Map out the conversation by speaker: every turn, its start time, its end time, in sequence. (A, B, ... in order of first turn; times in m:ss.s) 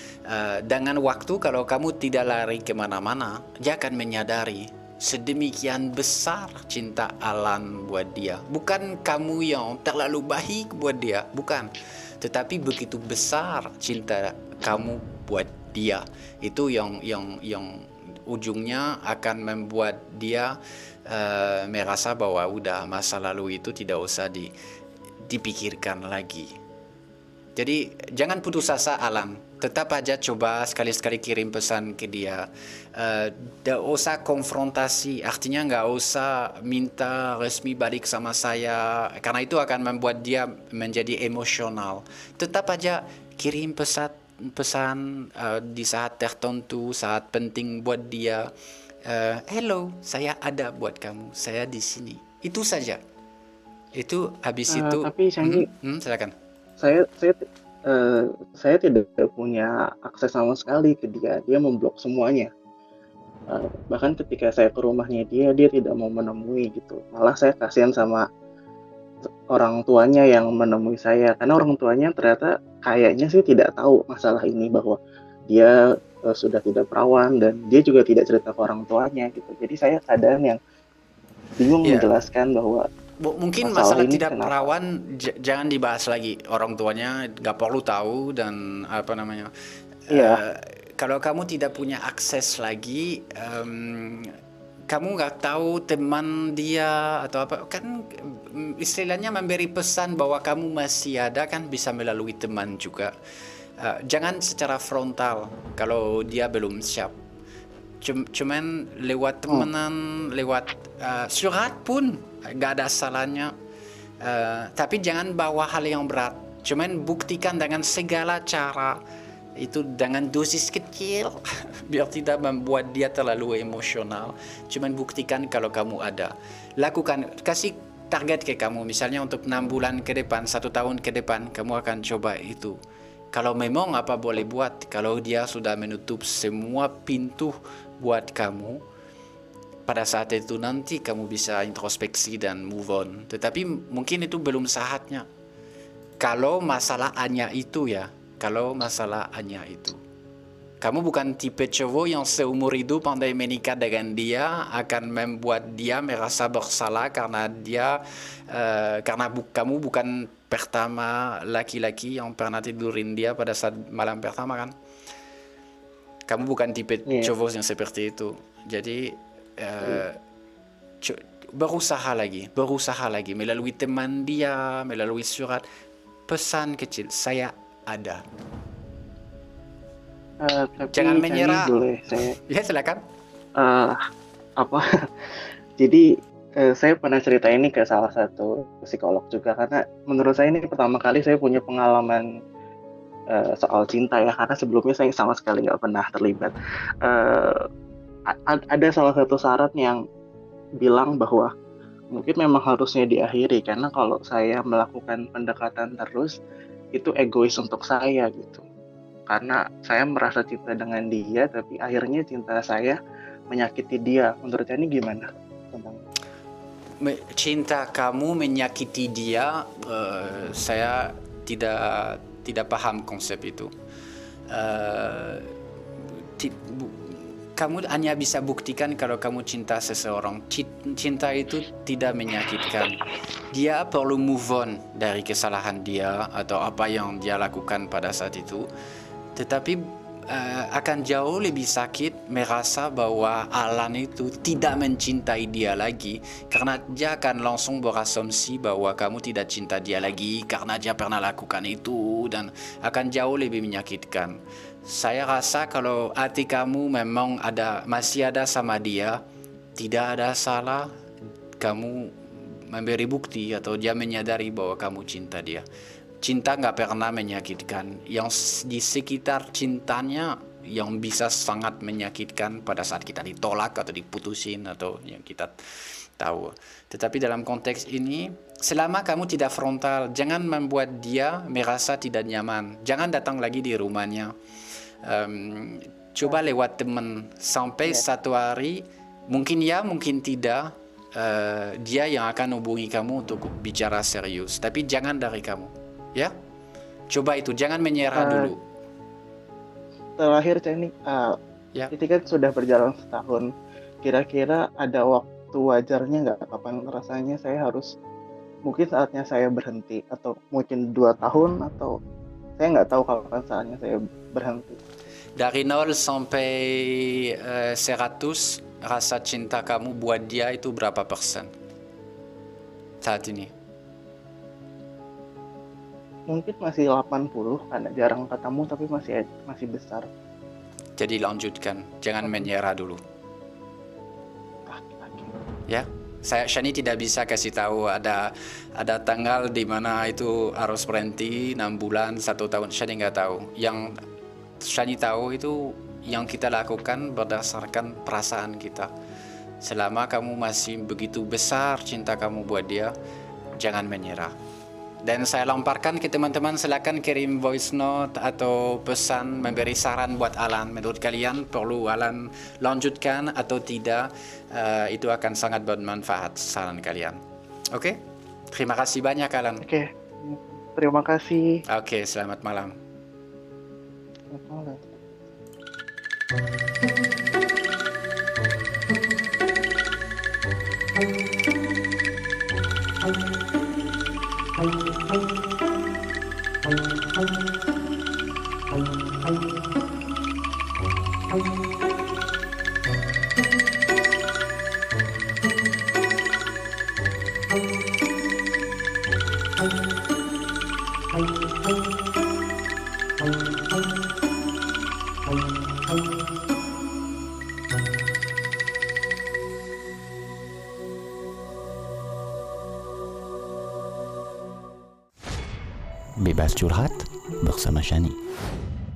0:00.3-0:20.5 A
0:21.1-0:24.5 A
0:25.3-0:26.5 A
0:27.6-0:48.5 A
0:49.0-0:53.0 A
0:54.0-0:56.3 A
0:54.7-0:55.7 B
0:56.8-1:02.5 B
1:03.5-1:08.2 B
1:09.5-1:15.0 B
1:15.5-1:15.7 B
1:16.3-1:20.6 B
1:21.6-1:22.9 B
1:23.2-1:29.5 A
1:23.6-1:24.7 B
1:30.1-1:30.4 B
1:30.1-1:34.3 A
1:34.9-1:43.1 A
1:43.8-1:47.1 A
1:48.0-1:53.5 A
1:54.2-1:59.0 A
1:59.6-2:12.8 A
2:13.3-2:18.8 A
2:19.9-2:25.2 A
2:26.2-2:30.0 A
2:30.8-2:38.0 A
2:38.5-2:44.7 A
2:46.3-2:50.2 A
2:51.0-2:55.6 A
2:56.3-2:58.2 A
3:00.4-3:02.4 B
3:00.9-3:01.7 A
3:02.5-3:03.0 A
3:03.6-3:04.0 B
3:05.8-3:06.0 B
3:06.6-3:12.2 B
3:13.3-3:17.6 B
3:18.3-3:20.0 B
3:20.8-3:21.5 B
3:22.1-3:26.3 B
3:26.9-3:28.6 B
3:29.3-3:33.0 B
3:33.5-3:36.0 B
3:37.0-3:43.7 A
3:44.5-3:45.5 A
3:46.4-3:53.0 A
3:53.5-3:58.6 A
3:59.4-4:19.2 A
4:19.8-4:20.9 A
4:21.6-4:25.6 A
4:26.2-4:35.5 A
4:36.2-4:44.3 A
4:45.0-4:56.3 A
4:57.1-4:58.6 A
4:58.2-4:58.5 B
5:00.2-5:01.4 B
5:01.9-5:03.5 B
5:04.0-5:07.9 B
5:08.7-5:12.0 B
5:12.6-5:14.8 B
5:15.4-5:21.5 A
5:23.0-5:23.5 A
5:26.3-5:30.1 B
5:31.0-5:33.0 A
5:32.2-5:32.5 B
5:34.6-5:35.3 B
5:35.7-5:38.2 A
5:38.8-5:43.9 A
5:44.6-5:48.9 A
5:49.6-5:52.9 A
5:53.6-5:54.3 A
5:55.0-6:07.2 A
6:07.7-6:08.0 A
6:08.5-6:09.6 A
6:09.6-6:11.5 B
6:11.7-6:12.7 A
6:14.3-6:15.0 B
6:56.2-6:58.2 C